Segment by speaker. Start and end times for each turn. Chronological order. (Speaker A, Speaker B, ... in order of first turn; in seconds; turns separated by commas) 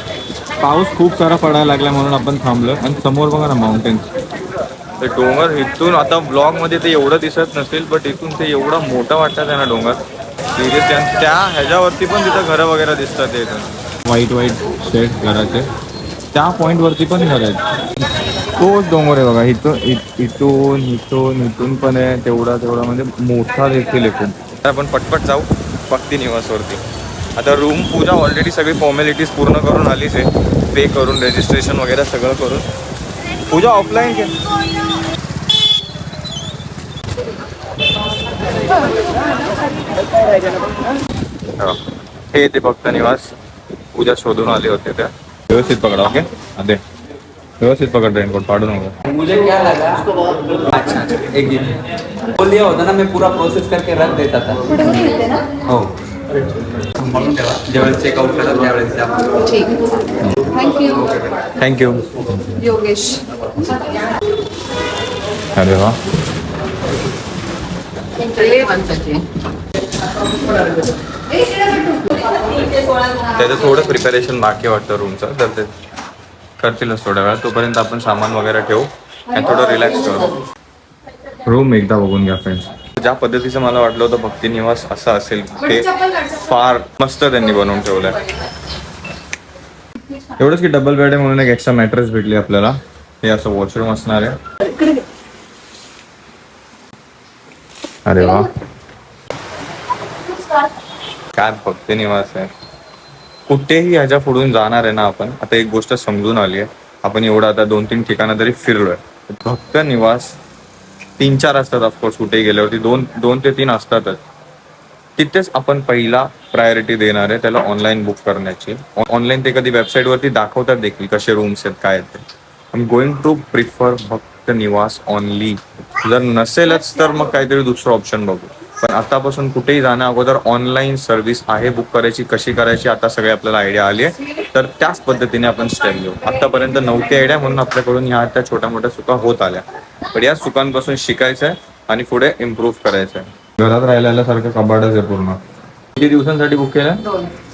Speaker A: 0.6-4.0, Speaker A: 5.0-10.0, Speaker A: 10.5-15.7, Speaker A: 16.3-17.6, Speaker A: 18.6-26.8, Speaker A: 27.4-32.7, Speaker A: 33.5-34.3, Speaker A: 42.3-43.3, Speaker A: 43.9-46.8, Speaker A: 47.6-49.0, Speaker B: 49.1-50.0, Speaker A: 50.7-51.7, Speaker B: 50.8-51.4, Speaker A: 52.4-54.6, Speaker B: 52.4-54.6, Speaker C: 54.7-55.5, Speaker A: 55.6-55.9, Speaker A: 57.0-59.2, Speaker C: 59.4-59.8, Speaker C: 60.5-61.2, Speaker A: 61.6-62.6, Speaker C: 62.6-64.1, Speaker A: 65.5-66.0, Speaker C: 68.2-69.2, Speaker C: 71.3-73.2, Speaker A: 73.3-75.7, Speaker A: 76.6-80.3, Speaker A: 81.4-88.2, Speaker C: 85.9-86.2, Speaker A: 90.4-94.3, Speaker C: 94.7-95.0, Speaker A: 98.0-98.5, Speaker A: 101.3-102.5, Speaker A: 103.5-110.3, Speaker A: 111.2-114.2, Speaker A: 115.2-145.4, Speaker A: 145.9-147.0, Speaker C: 147.1-147.3